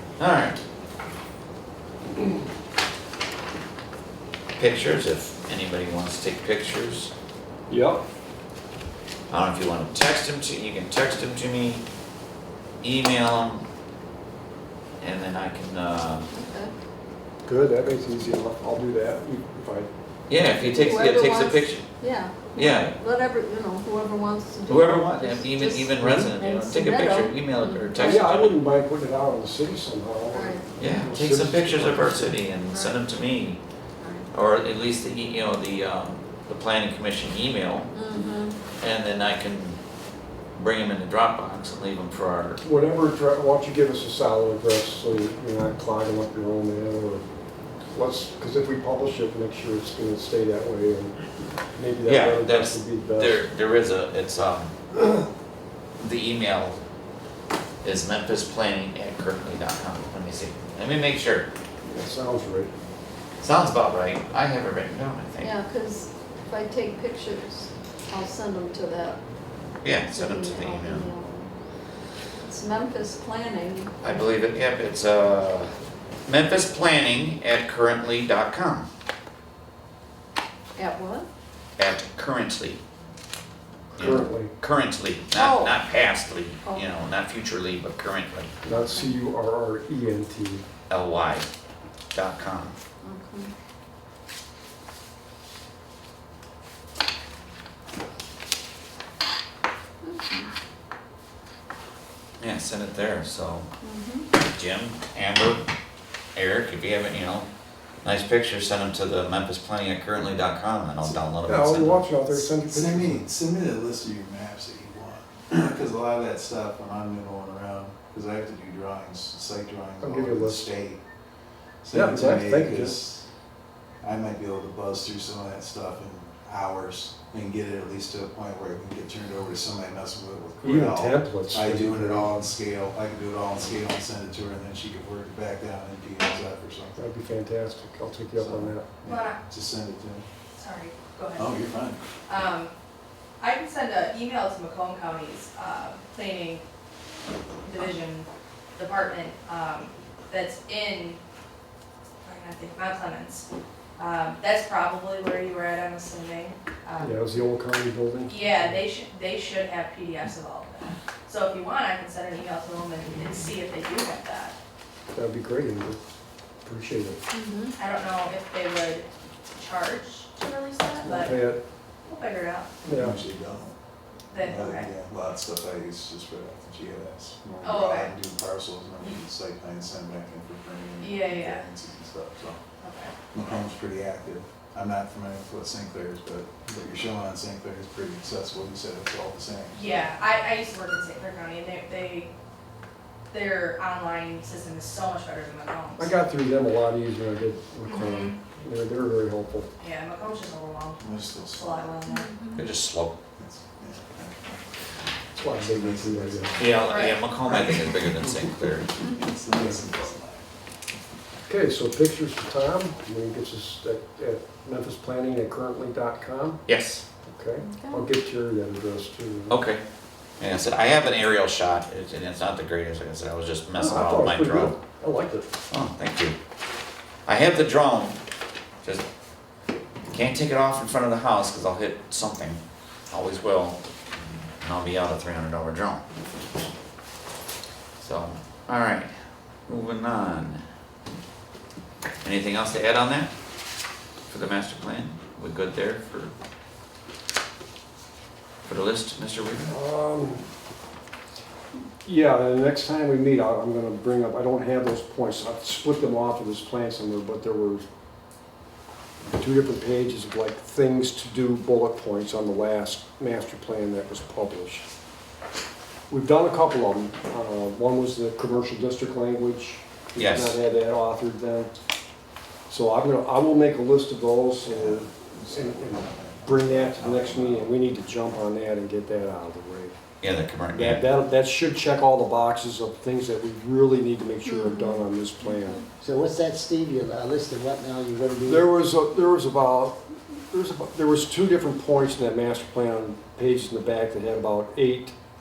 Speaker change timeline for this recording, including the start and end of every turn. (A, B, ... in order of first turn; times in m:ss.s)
0:00.2-0:00.6 A
0:04.6-0:07.1 A
0:07.7-0:08.0 B
0:09.3-0:11.8 A
0:12.8-0:13.7 A
0:15.0-0:16.3 A
0:16.3-0:16.7 C
0:17.4-0:19.9 B
0:20.3-0:21.9 A
0:20.6-0:28.1 C
0:22.6-0:23.0 A
0:24.6-0:28.6 A
0:26.0-0:26.3 B
0:27.9-0:32.4 B
0:30.3-0:30.7 C
0:30.8-0:33.6 A
0:32.7-0:33.0 C
0:34.0-0:34.3 C
0:34.3-0:37.9 A
0:37.9-0:38.6 C
0:38.8-0:39.8 A
0:40.5-0:42.6 A
0:42.6-0:47.2 B
0:47.9-0:51.2 B
0:51.7-0:53.5 B
0:52.0-0:54.7 A
0:56.0-0:56.8 A
0:57.8-1:01.5 A
1:01.8-1:02.7 B
1:03.4-1:05.6 A
1:05.4-1:09.2 C
1:09.8-1:11.1 A
1:10.0-1:11.5 C
1:12.4-1:14.3 C
1:14.0-1:15.7 A
1:16.2-1:18.9 A
1:20.8-1:21.3 C
1:21.8-1:22.8 A
1:23.9-1:24.5 B
1:24.0-1:28.5 A
1:25.3-1:25.8 C
1:26.6-1:26.9 C
1:28.6-1:30.6 B
1:28.6-1:29.2 C
1:30.9-1:31.5 A
1:32.1-1:32.8 A
1:33.0-1:33.5 C
1:40.0-1:40.5 C
1:42.4-1:43.7 A
1:43.8-1:44.3 C
1:44.4-1:45.7 A
1:46.3-1:47.5 A
1:48.0-1:52.0 A
1:51.4-1:53.3 B
1:52.3-2:01.0 D
2:00.0-2:00.7 B
2:01.8-2:03.3 D
2:01.9-2:02.9 B
2:04.0-2:17.1 D
2:10.6-2:12.3 B
2:17.0-2:18.9 B
2:18.3-2:20.2 D
2:19.0-2:19.4 E
2:20.6-2:21.7 E
2:21.3-2:22.0 D
2:22.3-2:22.7 E
2:23.4-2:26.6 E
2:27.6-2:31.2 E
2:32.2-2:33.4 E
2:34.0-2:37.2 E
2:37.0-2:38.8 B
2:38.3-2:44.6 E
2:45.1-2:46.0 B
2:46.6-2:47.2 B
2:47.3-2:47.7 C
2:47.8-2:51.5 E
2:51.0-2:51.6 B
2:52.1-2:52.7 E
2:52.8-2:53.7 D
2:52.8-2:53.2 B
2:54.3-2:54.9 E
2:54.4-3:02.6 D
2:57.6-2:58.1 E
3:01.0-3:01.6 E
3:02.8-3:03.1 E
3:03.3-3:09.8 D
3:09.7-3:12.3 E
3:13.3-3:16.1 E
3:16.0-3:19.7 B
3:17.9-3:18.4 E
3:19.8-3:22.3 E
3:21.0-3:21.9 D
3:22.0-3:22.7 C
3:22.5-3:23.2 A
3:23.4-3:24.5 D
3:25.4-3:26.6 B
3:25.4-3:26.8 D
3:26.6-3:28.9 A
3:26.9-3:27.2 E
3:27.4-3:30.5 D
3:31.5-3:36.6 B
3:36.7-3:37.0 A
3:37.2-3:39.6 B
3:37.6-3:38.0 C
3:39.5-3:39.8 A
3:40.4-3:44.8 A
3:43.7-3:45.5 B
3:45.7-3:46.3 A
3:47.2-3:48.2 A
3:50.1-3:53.8 A
3:54.6-3:56.0 A
3:58.0-3:59.1 A
3:59.7-4:00.6 A
4:02.2-4:03.3 A
4:04.3-4:06.3 A
4:08.6-4:09.7 A
4:09.7-4:10.4 B
4:12.0-4:17.8 B
4:19.3-4:24.8 B
4:26.1-4:31.7 B
4:30.2-4:30.6 A
4:32.7-4:40.0 B
4:34.6-4:37.7 D
4:40.2-4:41.0 A
4:40.7-4:45.8 B
4:44.4-4:45.8 C
4:46.0-4:48.7 F
4:48.4-4:55.1 B